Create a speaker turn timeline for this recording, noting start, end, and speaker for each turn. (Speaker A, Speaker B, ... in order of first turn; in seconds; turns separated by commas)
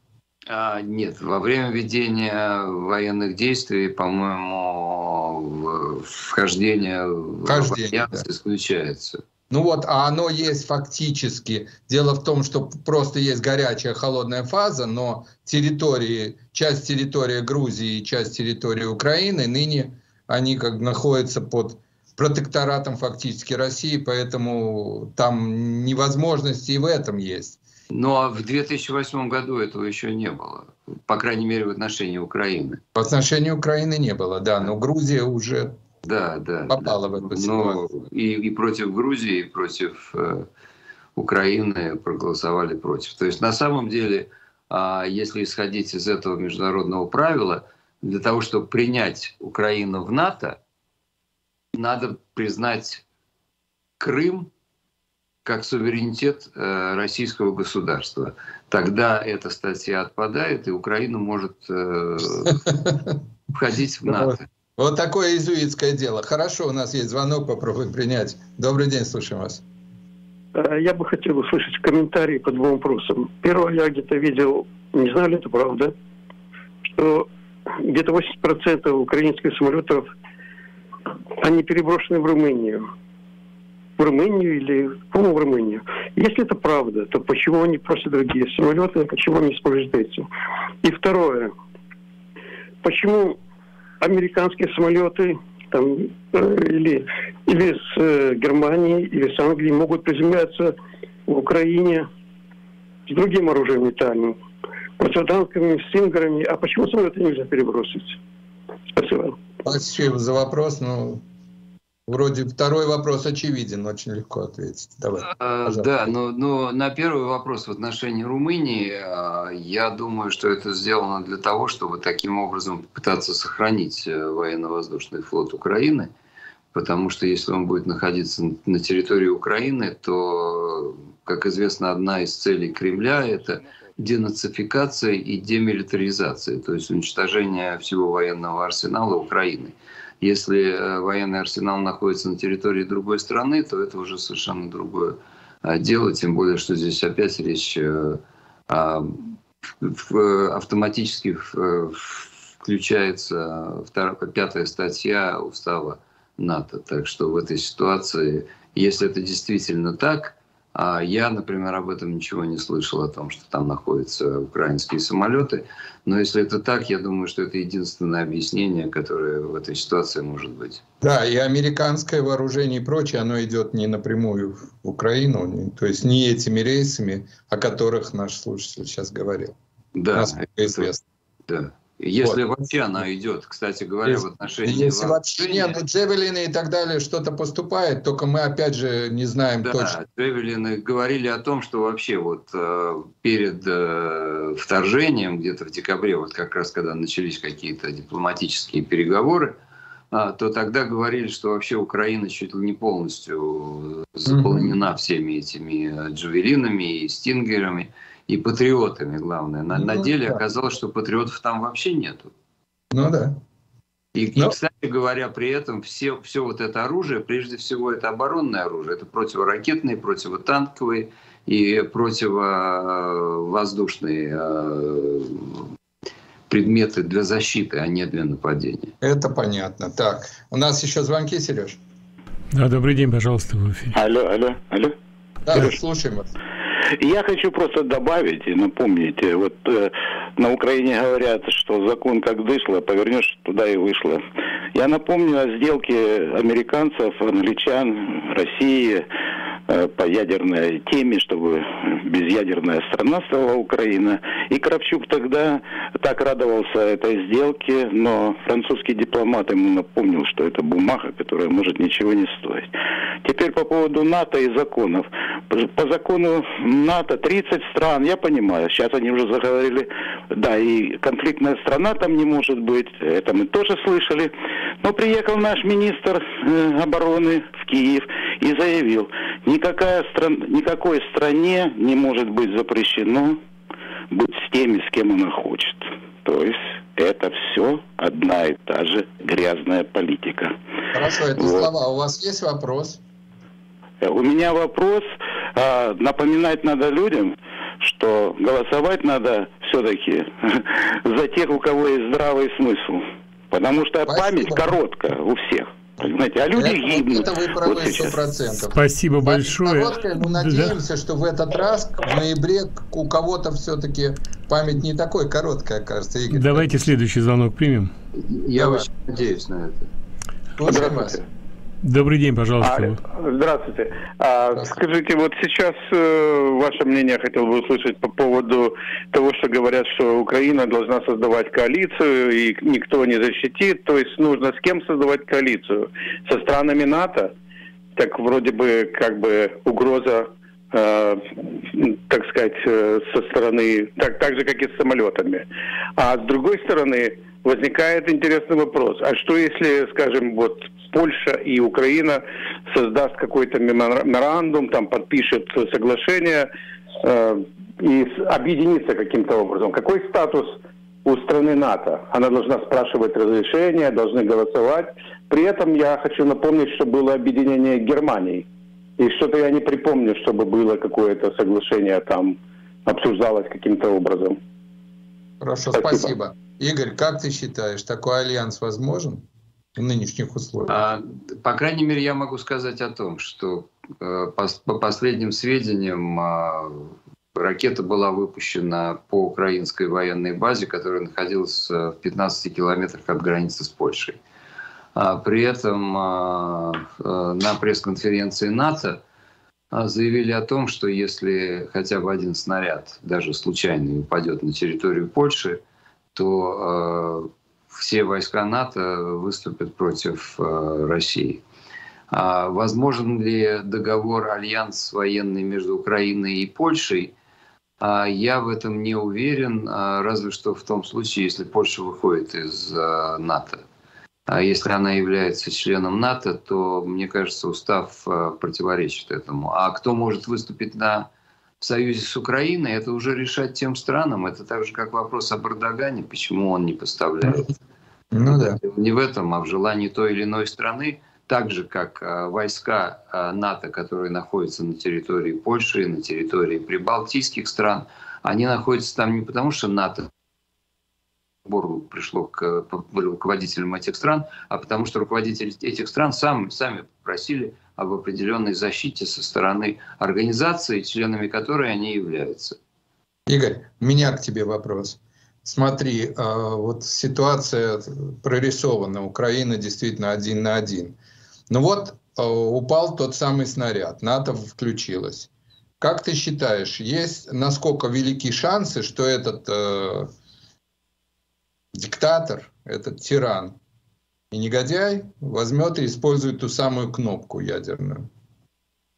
Speaker A: 0.5-9.2, Speaker B: 7.4-8.2, Speaker B: 9.5-27.6, Speaker A: 27.9-32.8, Speaker B: 32.9-35.7, Speaker A: 36.0-40.5, Speaker B: 36.7-37.8, Speaker A: 41.1-50.6, Speaker A: 51.8-53.0, Speaker A: 54.0-54.5, Speaker A: 55.4-62.6, Speaker B: 62.7-63.1, Speaker A: 63.5-64.4, Speaker B: 64.1-69.6, Speaker C: 70.5-75.9, Speaker C: 76.8-77.3, Speaker C: 77.8-80.1, Speaker C: 81.4-82.9, Speaker C: 84.0-90.3, Speaker C: 90.8-91.5, Speaker C: 92.8-93.4, Speaker C: 94.0-100.7, Speaker C: 101.3-102.1, Speaker C: 103.1-104.4, Speaker C: 105.0-108.2, Speaker C: 108.9-109.4, Speaker B: 109.6-111.2, Speaker B: 112.1-115.9, Speaker A: 115.2-126.1, Speaker A: 126.7-170.8, Speaker B: 171.0-179.5, Speaker A: 179.9-180.9, Speaker B: 180.1-181.0, Speaker A: 181.5-185.8, Speaker B: 184.0-190.0, Speaker A: 189.6-199.6, Speaker A: 200.1-212.3, Speaker B: 204.3-204.7, Speaker B: 209.7-210.4, Speaker B: 212.9-213.4, Speaker A: 214.1-225.6, Speaker A: 226.5-228.9, Speaker B: 229.0-231.8, Speaker D: 232.5-233.9, Speaker E: 233.9-234.9, Speaker B: 235.4-236.3, Speaker E: 237.0-244.2, Speaker E: 244.7-249.1, Speaker E: 249.7-262.7, Speaker E: 263.2-274.3, Speaker E: 274.8-283.4, Speaker E: 284.1-290.5, Speaker B: 290.9-293.0, Speaker E: 291.4-291.7, Speaker E: 294.0-308.2, Speaker B: 304.1-304.7, Speaker B: 306.5-316.7, Speaker D: 308.7-310.8, Speaker D: 316.3-317.9, Speaker A: 318.1-319.9, Speaker B: 318.5-319.2, Speaker B: 320.6-321.2, Speaker F: 320.6-321.2, Speaker D: 321.8-323.0, Speaker F: 322.6-337.3, Speaker F: 337.9-356.5, Speaker F: 357.0-368.4, Speaker F: 369.0-374.4, Speaker B: 375.4-379.2, Speaker F: 375.8-376.1, Speaker B: 379.8-380.8, Speaker A: 380.7-394.2, Speaker A: 394.9-399.0, Speaker A: 399.7-405.6, Speaker A: 406.1-411.4, Speaker A: 412.1-417.1, Speaker A: 417.8-423.6, Speaker A: 424.3-431.1, Speaker A: 431.6-437.5, Speaker B: 438.1-438.6, Speaker A: 438.2-450.1, Speaker A: 451.4-462.6, Speaker B: 463.3-470.9, Speaker B: 471.5-475.3, Speaker B: 475.8-480.1, Speaker B: 481.7-483.6, Speaker B: 484.3-488.1